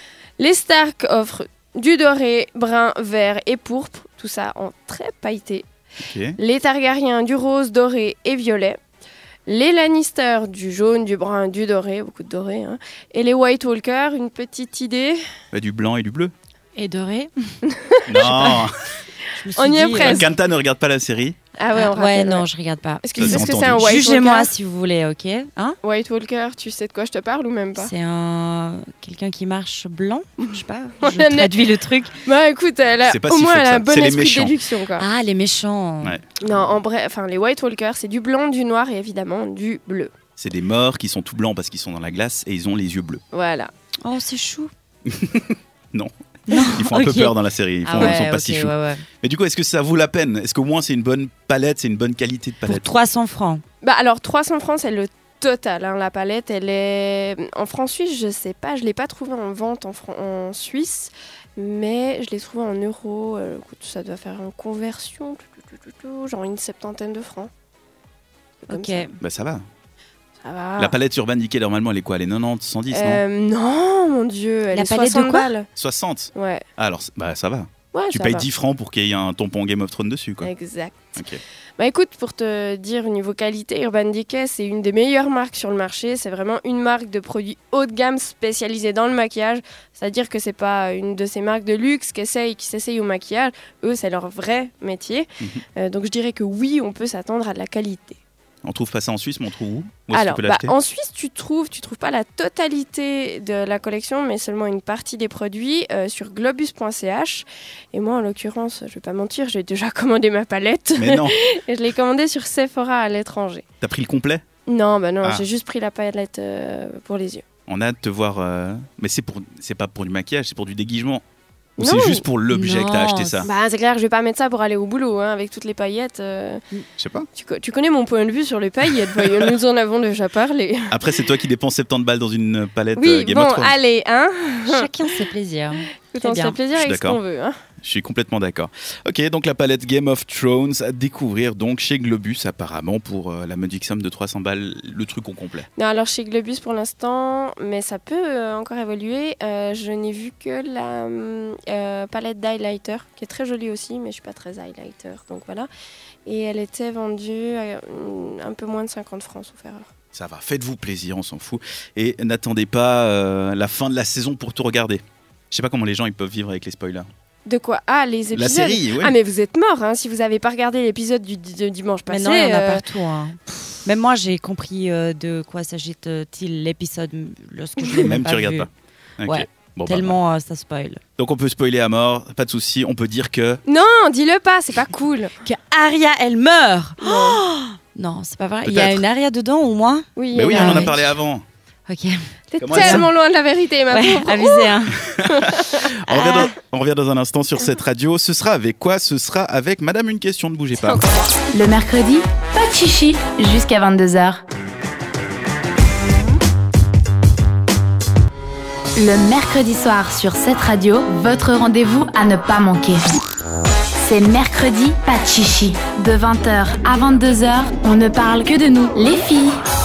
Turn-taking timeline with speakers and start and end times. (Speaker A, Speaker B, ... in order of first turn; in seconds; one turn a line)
Speaker A: 0.4-5.7
Speaker B: 6.0-6.4
Speaker A: 6.4-8.8
Speaker A: 9.5-15.2
Speaker B: 15.5-16.3
Speaker C: 16.8-17.6
Speaker A: 17.7-18.6
Speaker B: 18.1-18.9
Speaker C: 18.2-18.6
Speaker C: 19.4-20.3
Speaker A: 19.6-20.3
Speaker B: 20.0-21.4
Speaker A: 21.6-22.5
Speaker C: 21.7-25.8
Speaker A: 23.0-24.5
Speaker B: 23.2-24.1
Speaker A: 25.8-27.9
Speaker C: 27.8-32.2
Speaker A: 31.0-31.6
Speaker A: 32.2-35.1
Speaker B: 33.0-34.5
Speaker C: 35.0-36.2
Speaker A: 36.4-40.1
Speaker B: 40.4-43.2
Speaker A: 43.3-43.7
Speaker C: 44.0-44.7
Speaker B: 45.1-52.9
Speaker C: 46.5-49.0
Speaker C: 52.7-53.6
Speaker A: 53.8-67.5
Speaker A: 68.7-69.1
Speaker C: 68.7-69.2
Speaker B: 69.2-69.7
Speaker A: 70.4-71.0
Speaker B: 70.8-73.2
Speaker A: 72.9-75.7
Speaker C: 74.7-75.5
Speaker B: 75.8-80.5
Speaker A: 76.3-76.6
Speaker A: 77.9-78.5
Speaker A: 80.4-81.0
Speaker B: 81.2-81.4
Speaker A: 81.8-98.2
Speaker B: 98.6-100.7
Speaker A: 100.1-113.7
Speaker B: 111.0-111.4
Speaker B: 113.8-114.4
Speaker A: 114.7-117.4
Speaker B: 117.7-121.2
Speaker B: 121.8-123.5
Speaker A: 121.8-122.2
Speaker C: 122.5-123.5
Speaker A: 123.4-126.6
Speaker B: 127.0-127.3
Speaker A: 127.3-130.9
Speaker B: 130.9-133.7
Speaker A: 133.0-134.9
Speaker C: 134.7-136.6
Speaker A: 136.1-137.6
Speaker B: 136.8-137.2
Speaker B: 137.8-145.7
Speaker A: 145.8-155.7
Speaker A: 156.3-159.9
Speaker B: 160.1-167.1
Speaker A: 167.5-172.8
Speaker B: 168.3-169.2
Speaker C: 172.1-178.7
Speaker A: 177.8-178.1
Speaker B: 178.0-180.2
Speaker C: 179.2-181.0
Speaker B: 181.2-183.6
Speaker A: 183.7-185.3
Speaker C: 185.4-191.1
Speaker A: 187.0-187.4
Speaker B: 188.7-189.0
Speaker A: 190.2-190.9
Speaker B: 190.3-191.4
Speaker C: 191.9-193.1
Speaker A: 192.5-194.8
Speaker B: 192.6-193.1
Speaker C: 193.9-195.1
Speaker B: 195.1-201.0
Speaker A: 195.3-195.8
Speaker C: 196.1-196.5
Speaker A: 200.8-201.4
Speaker D: 201.5-204.4
Speaker D: 208.9-213.1
Speaker D: 214.0-219.6